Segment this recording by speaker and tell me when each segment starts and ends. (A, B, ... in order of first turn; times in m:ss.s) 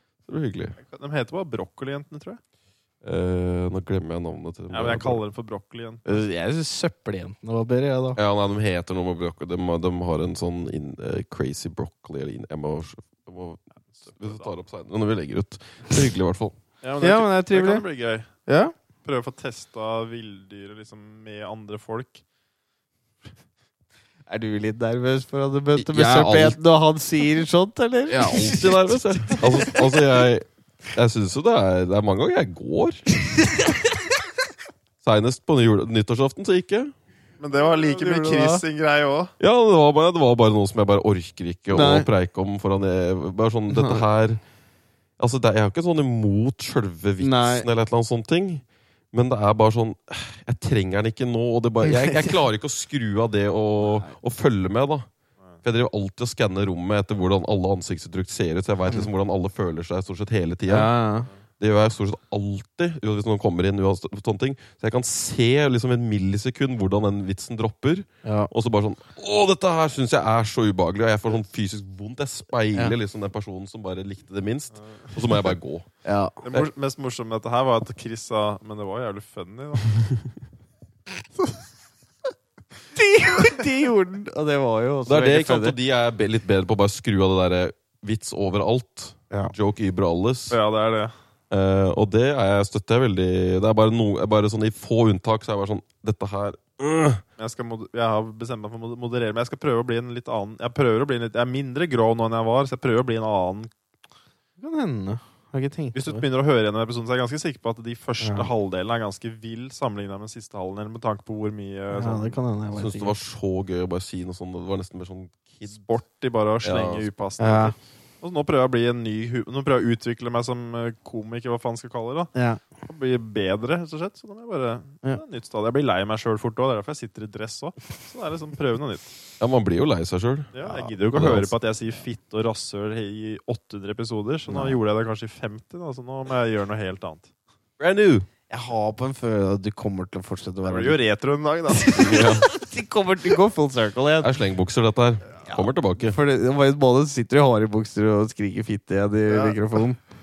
0:00.3-0:00.8 A
0:00.8-0:02.4 B
0:03.0-0:05.2 A
0:04.7-0:06.2 B
0:06.1-0:08.2 C
0:08.2-0:16.6 A
0:14.0-0:14.6 B
0:16.8-0:18.3 B
0:17.0-0:17.8 C
0:18.5-0:18.7 C
0:19.0-0:22.2 B
0:24.3-0:30.0 C
0:25.8-0:26.6 A
0:28.1-0:33.0 A
0:33.4-0:33.8 C
0:35.0-0:36.9 A
0:37.4-0:39.3 B
0:37.6-0:38.6 C
0:39.4-0:44.4 A
0:41.7-0:42.1 C
0:43.7-0:44.0 C
0:45.2-0:55.1 A
0:47.2-0:47.7 C
0:51.8-0:52.4 C
0:53.8-0:54.1 C
0:55.6-1:00.9 A
1:00.7-1:01.3 C
1:01.6-1:15.9 A
1:08.2-1:08.5 C
1:16.0-1:16.4 C
1:16.4-1:20.0 B
1:23.0-1:25.8 C
1:25.1-1:30.6 A
1:30.5-1:31.1 B
1:31.5-1:37.2 A
1:37.4-1:43.7 B
1:44.6-1:46.2 C
1:45.9-1:52.4 B
1:48.2-1:48.5 C
1:51.9-1:53.2 C
1:52.7-1:55.9 A
1:55.7-2:02.3 B
1:56.6-1:57.1 A
1:57.4-1:57.7 C
2:02.4-2:02.6 C
2:02.8-2:09.1 B
2:09.4-2:10.6 A
2:10.5-2:17.3 B
2:10.7-2:10.9 C
2:11.1-2:11.6 A
2:14.5-2:14.8 C
2:17.8-2:18.3 A
2:18.5-2:21.0 C
2:20.6-2:22.2 B
2:21.7-2:24.3 C
2:21.9-2:22.5 A
2:24.2-2:26.2 A
2:25.5-2:30.0 C
2:29.3-2:29.6 B